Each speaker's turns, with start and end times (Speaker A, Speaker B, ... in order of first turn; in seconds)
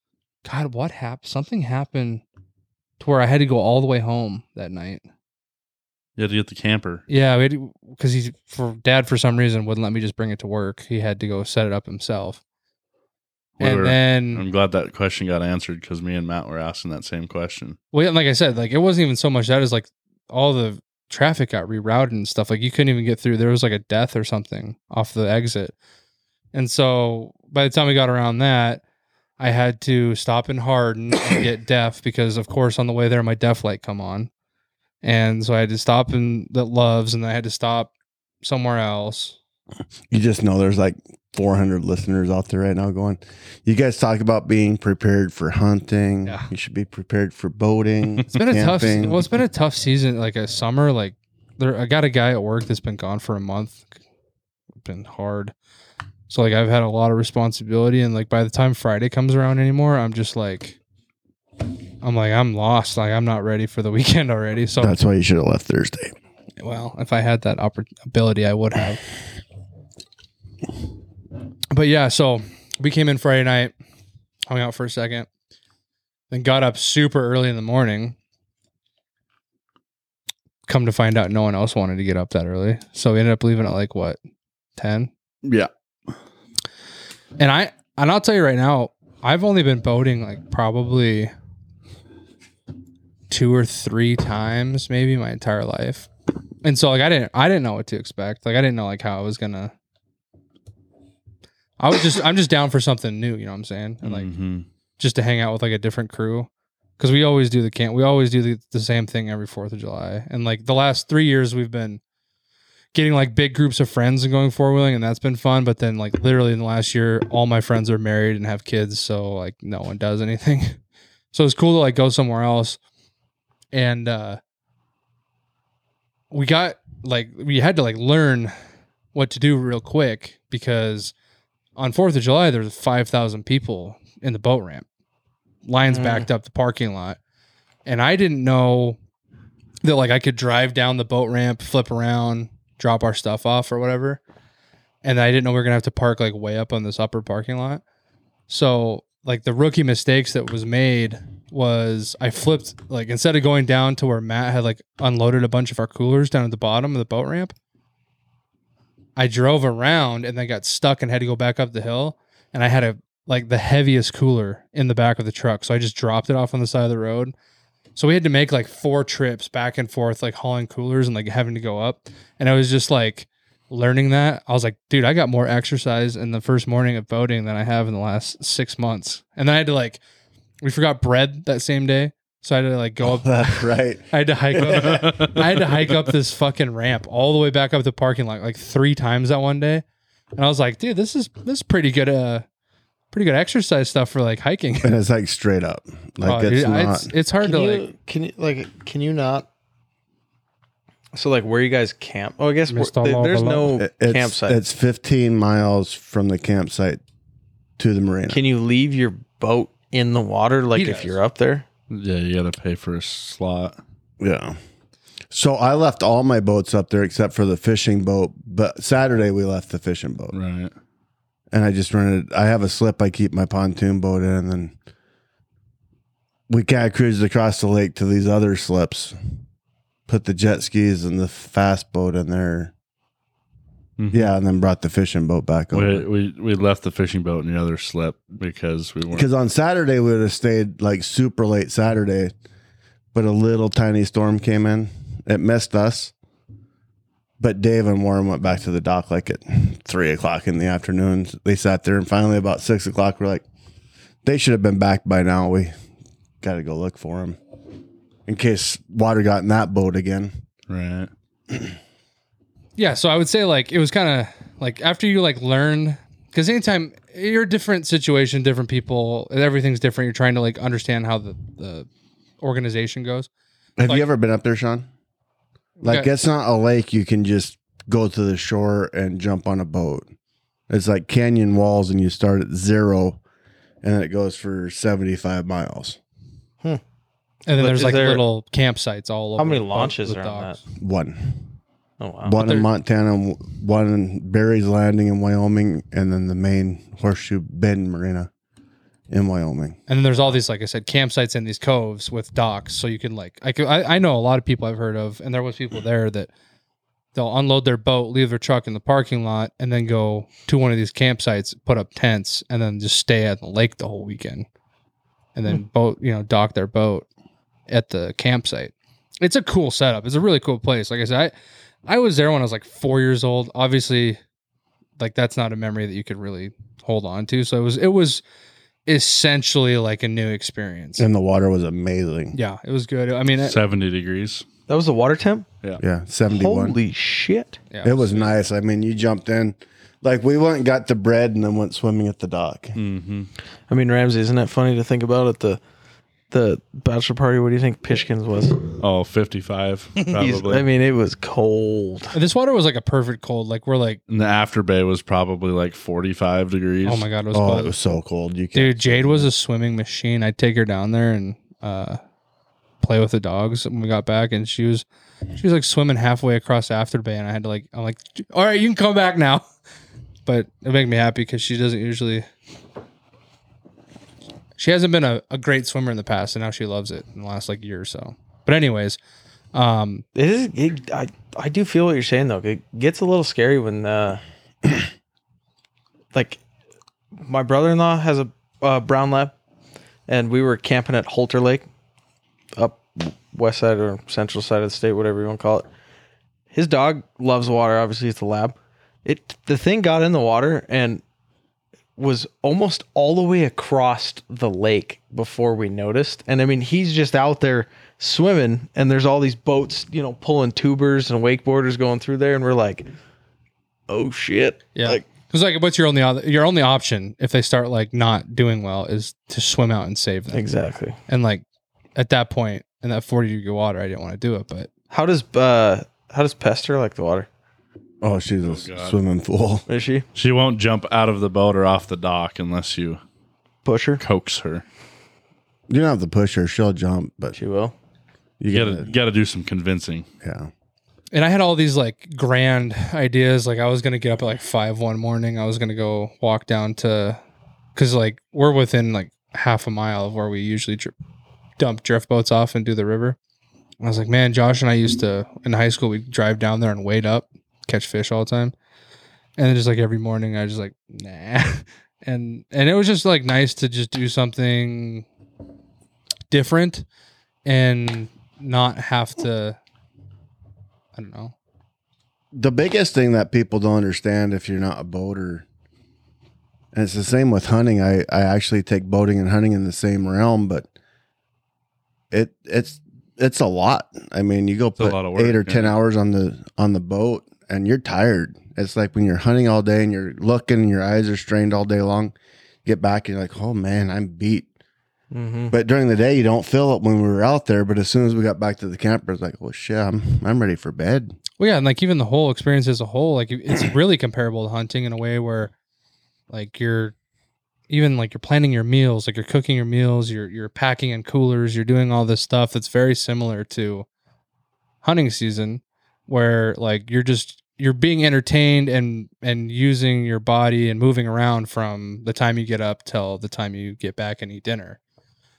Speaker A: 0.4-2.2, 3.0-5.0, 7.1-12.4, 13.6-14.4, 17.9-25.7, 26.5-28.8, 29.4-34.3, 35.0-37.9, 38.4-39.4, 48.3-53.9, 54.8-55.5, 56.3-60.8, 62.0-65.0, 66.6-69.0, 71.7-73.7, 74.5-75.3, 76.3-78.2, 80.7-84.2, 84.8-85.1, 87.4-91.3, 93.3-96.1, 96.6-99.7, 101.8-104.3, 105.0-112.0, 112.9-120.8, 121.3-122.8, 123.7-124.4, 126.3-128.5, 129.1-131.1, 131.8-134.8, 135.6-137.2, 137.8-139.0, 139.8-144.2, 145.0-147.8, 148.5-157.5, 159.2-167.3, 167.9-180.0, 180.6-189.8, 190.3-192.4, 193.1-195.0, 196.2-197.9, 202.7-203.8, 210.7-211.2, 262.8-271.9, 272.4-273.3, 275.8-276.1, 287.5-290.6, 292.4-292.7, 299.9-306.3, 307.1-314.5, 315.4-317.1, 317.7-321.3, 321.9-324.2, 325.0-328.2, 328.9-331.1, 332.3-333.6, 337.7-338.3, 352.1-354.0, 356.8-357.7, 358.5-362.0, 362.8-369.4, 370.2-372.2, 374.6-379.0, 379.5-380.0, 414.8-420.4, 421.1-421.4, 421.9-424.7, 441.1-447.2, 447.8-450.9, 451.6-453.2, 453.8-458.5, 459.4-465.1, 466.3-466.9, 467.4-469.6, 470.9-471.3, 501.4-505.5, 506.3-506.9, 507.7-513.9, 514.8-524.8
Speaker B: 6.2-7.0, 13.6-17.8, 85.4-85.7, 104.0-104.7, 184.6-185.4, 211.9-213.8, 220.3-220.7, 234.0-234.3, 235.7-239.3, 260.7-261.1, 333.4-334.4, 342.8-343.3, 348.8-350.6, 354.1-357.1, 428.4-428.9, 430.1-433.0, 434.0-434.6, 438.5-440.1, 484.8-485.7
Speaker C: 40.1-49.3, 64.8-66.1, 183.0-185.4, 194.8-197.1, 203.8-207.0, 207.8-208.4, 214.2-214.6, 215.3-220.3, 221.5-224.7, 226.5-229.2, 230.1-232.7, 234.1-236.1, 239.1-242.3, 243.1-246.1, 247.4-253.4, 254.2-255.7, 256.4-257.4, 258.3-260.4, 273.8-274.9, 275.8-280.1, 280.7-283.2, 283.8-286.0, 290.8-291.5, 292.2-298.3, 299.1-299.8, 331.0-332.4, 335.8-336.8, 337.8-342.8, 357.3-359.3, 428.0-429.6, 435.7-437.4, 438.4-438.9, 440.2-440.5, 472.3-475.4, 476.7-480.7, 482.1-494.5, 495.5-501.1
Speaker D: 135.8-136.3, 197.4-199.5, 201.1-204.6, 208.3-211.6, 287.6-288.2, 289.4-290.6, 292.0-292.4, 334.7-335.5, 336.3-337.6, 343.7-345.6, 346.3-348.6, 350.1-352.1, 380.1-384.2, 386.1-386.4, 387.2-389.3, 390.1-391.7, 392.5-395.7, 396.5-401.0, 402.0-412.9, 413.9-415.0, 420.3-421.0, 424.9-427.3, 429.7-430.1, 433.6-434.0, 437.3-437.7, 495.1-495.5